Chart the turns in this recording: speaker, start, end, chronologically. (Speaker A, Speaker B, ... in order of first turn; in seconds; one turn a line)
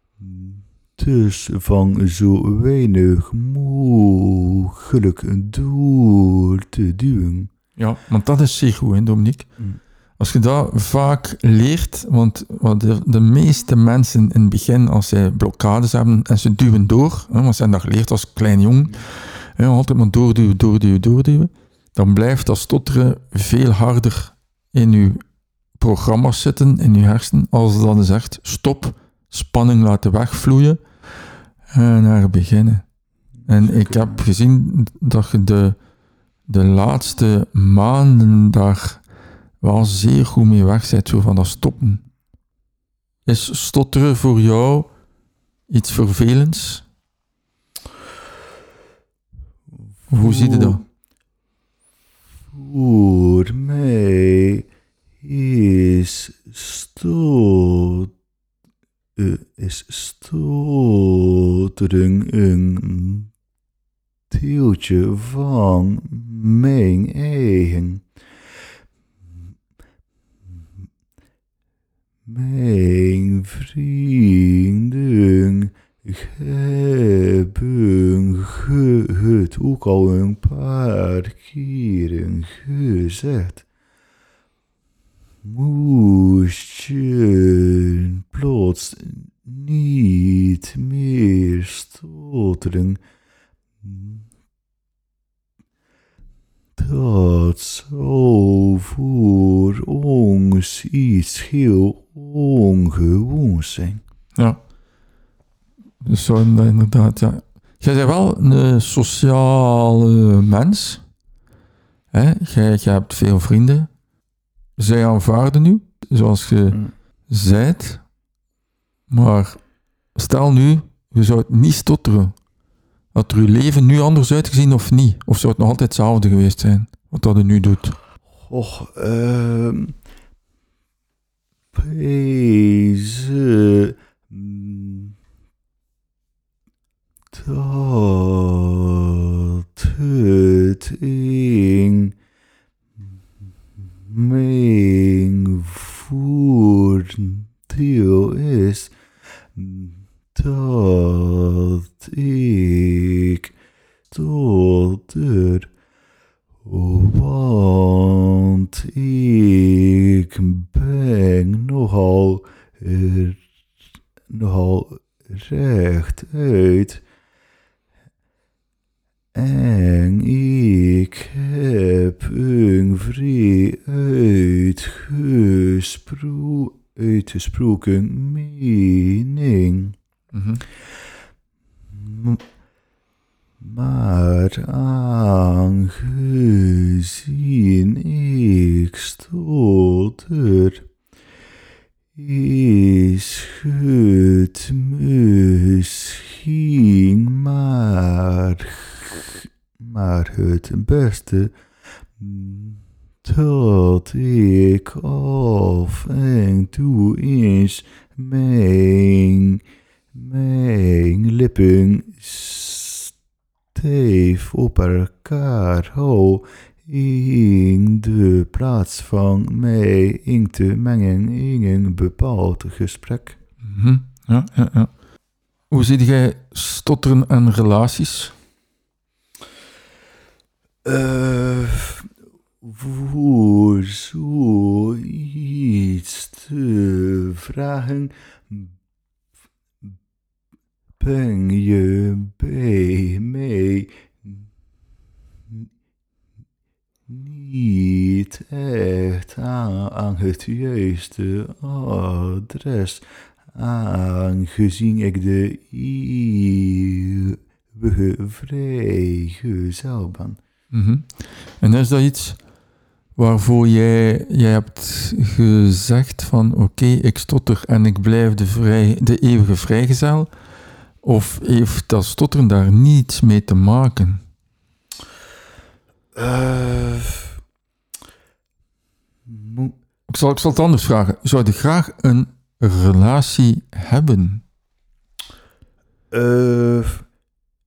Speaker A: 0.2-7.5
Speaker B: 7.8-9.5
Speaker B: 10.2-25.2
Speaker B: 25.8-30.8
Speaker B: 31.7-32.9
Speaker A: 33.5-34.2
Speaker B: 33.5-35.8
Speaker B: 36.5-39.0
Speaker B: 39.6-42.0
Speaker B: 43.3-44.9
Speaker B: 45.7-46.9
Speaker A: 50.1-50.8
Speaker B: 50.1-50.8
Speaker A: 52.5-54.7
Speaker A: 55.2-58.1
Speaker A: 59.2-63.3
Speaker A: 64.3-68.0
Speaker A: 72.3-83.7
Speaker A: 85.4-93.0
Speaker A: 93.8-94.3
Speaker A: 96.8-104.0
Speaker B: 106.0-111.0
Speaker B: 112.1-113.9
Speaker B: 114.8-118.0
Speaker B: 119.1-119.6
Speaker B: 120.2-122.3
Speaker B: 123.1-128.0
Speaker A: 128.4-130.0
Speaker A: 131.7-135.2
Speaker A: 137.3-142.2
Speaker A: 143.8-148.9
Speaker A: 149.6-153.6
Speaker A: 154.1-155.7
Speaker A: 156.6-163.4
Speaker A: 164.3-167.0
Speaker A: 169.3-180.0
Speaker B: 180.3-180.6
Speaker A: 181.9-182.4
Speaker A: 183.6-190.9
Speaker A: 192.2-201.6
Speaker A: 202.2-213.1
Speaker A: 213.7-223.4
Speaker B: 223.6-224.9
Speaker B: 225.7-228.3
Speaker A: 230.8-232.1
Speaker A: 232.6-238.7
Speaker A: 241.0-244.5
Speaker A: 247.1-260.4
Speaker B: 260.7-262.4
Speaker B: 263.2-270.3
Speaker B: 271.0-274.2
Speaker A: 276.1-277.4
Speaker A: 279.2-279.7
Speaker B: 280.1-284.4
Speaker A: 286.1-287.1